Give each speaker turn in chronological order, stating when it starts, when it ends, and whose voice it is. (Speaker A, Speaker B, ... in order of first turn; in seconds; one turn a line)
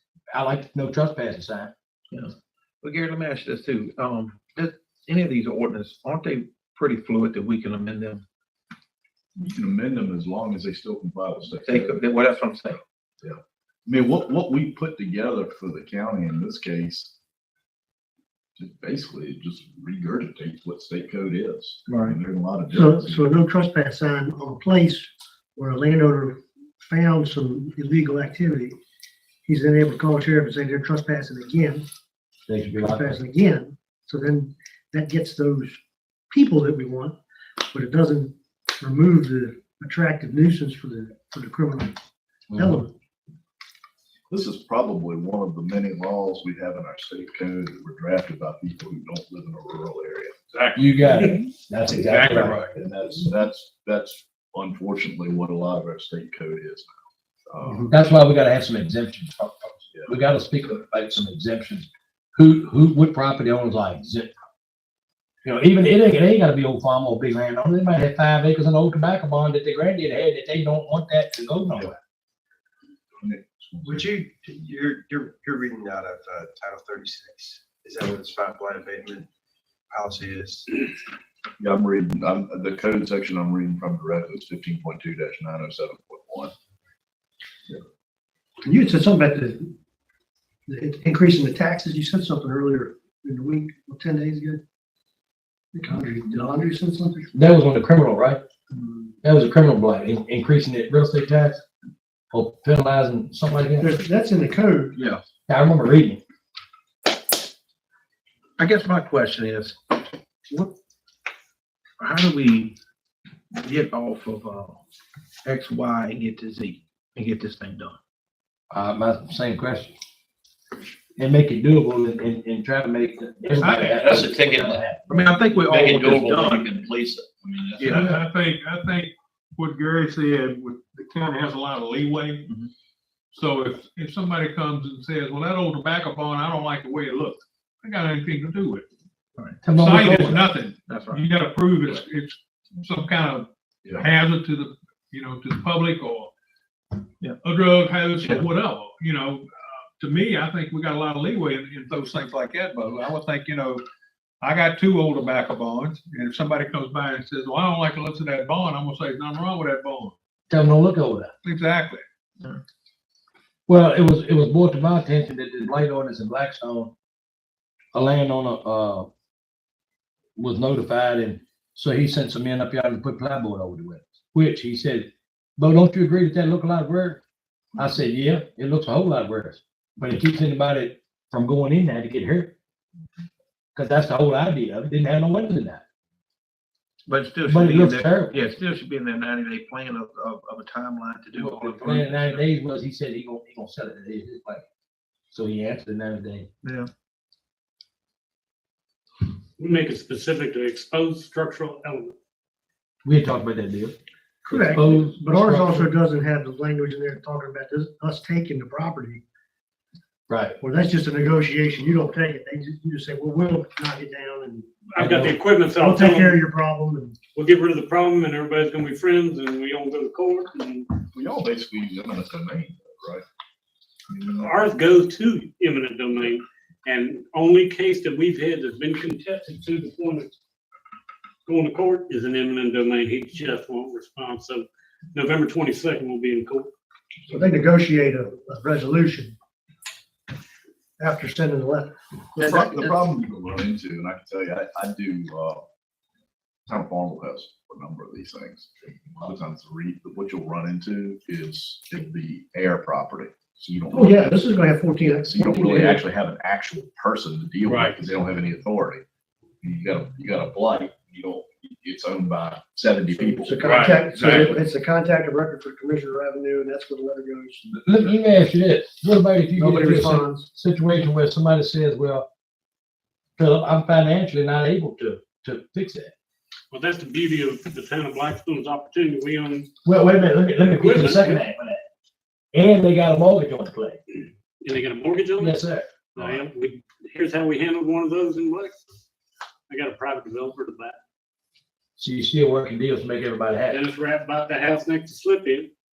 Speaker A: 0.3-1.7
Speaker B: 2.8-8.2
Speaker C: 9.4-12.0
Speaker B: 11.7-12.8
Speaker C: 13.2-17.1
Speaker C: 18.6-23.3
Speaker B: 21.9-22.2
Speaker D: 22.7-28.8
Speaker D: 29.5-31.9
Speaker A: 32.5-33.2
Speaker D: 32.8-35.8
Speaker D: 36.3-37.2
Speaker D: 37.7-42.0
Speaker A: 42.5-42.9
Speaker D: 42.5-42.9
Speaker C: 44.3-50.4
Speaker E: 50.5-50.9
Speaker A: 50.8-52.6
Speaker E: 52.0-52.7
Speaker C: 52.7-56.9
Speaker C: 57.5-57.9
Speaker D: 57.6-57.9
Speaker A: 57.9-64.3
Speaker A: 65.4-72.0
Speaker C: 73.2-74.1
Speaker F: 73.8-79.3
Speaker F: 79.9-80.9
Speaker C: 81.6-86.5
Speaker D: 88.6-89.7
Speaker D: 90.7-94.6
Speaker D: 95.7-97.3
Speaker A: 97.3-98.4
Speaker A: 99.2-101.6
Speaker A: 102.3-104.0
Speaker D: 103.8-105.0
Speaker B: 105.0-105.2
Speaker A: 105.5-106.2
Speaker B: 108.6-110.7
Speaker B: 112.0-112.8
Speaker B: 113.5-114.8
Speaker B: 115.5-118.0
Speaker A: 118.7-120.0
Speaker A: 121.2-125.0
Speaker B: 123.6-124.6
Speaker G: 124.0-124.8
Speaker B: 125.1-126.7
Speaker G: 125.7-128.2
Speaker B: 127.8-128.1
Speaker E: 127.9-132.5
Speaker E: 133.3-138.9
Speaker B: 139.4-139.7
Speaker A: 139.6-140.4
Speaker E: 139.7-146.3
Speaker B: 140.9-141.2
Speaker E: 147.4-149.5
Speaker E: 150.0-153.8
Speaker E: 154.4-160.2
Speaker A: 160.5-161.3
Speaker E: 161.4-162.0
Speaker A: 163.7-166.9
Speaker A: 167.9-169.1
Speaker A: 170.4-177.2
Speaker A: 177.8-182.5
Speaker A: 183.8-185.8
Speaker B: 187.1-192.5
Speaker A: 187.5-188.4
Speaker A: 191.4-194.6
Speaker A: 195.3-196.5
Speaker B: 196.6-196.9
Speaker H: 199.6-202.2
Speaker A: 203.1-203.9
Speaker D: 204.4-209.2
Speaker A: 204.5-205.9
Speaker A: 210.3-210.6
Speaker D: 210.6-214.9
Speaker H: 214.9-216.4
Speaker A: 215.0-215.3
Speaker D: 215.8-217.2
Speaker H: 217.3-220.9
Speaker C: 221.1-223.2
Speaker C: 224.1-224.5
Speaker H: 224.4-230.3
Speaker H: 231.5-236.7
Speaker D: 237.3-239.3
Speaker D: 241.0-242.5
Speaker C: 242.4-245.6
Speaker C: 246.7-254.4
Speaker D: 253.9-256.0
Speaker C: 255.0-259.0
Speaker H: 257.6-258.0
Speaker C: 259.6-264.6
Speaker D: 263.1-267.7
Speaker H: 263.6-264.2
Speaker A: 267.7-272.2
Speaker D: 269.6-270.5
Speaker A: 273.4-276.1
Speaker H: 276.7-279.7
Speaker A: 279.9-281.8
Speaker H: 280.8-281.4
Speaker A: 282.5-284.0
Speaker H: 284.6-285.6
Speaker A: 285.4-285.9
Speaker H: 286.1-288.8
Speaker H: 289.7-291.0
Speaker A: 292.0-293.8
Speaker H: 293.7-295.7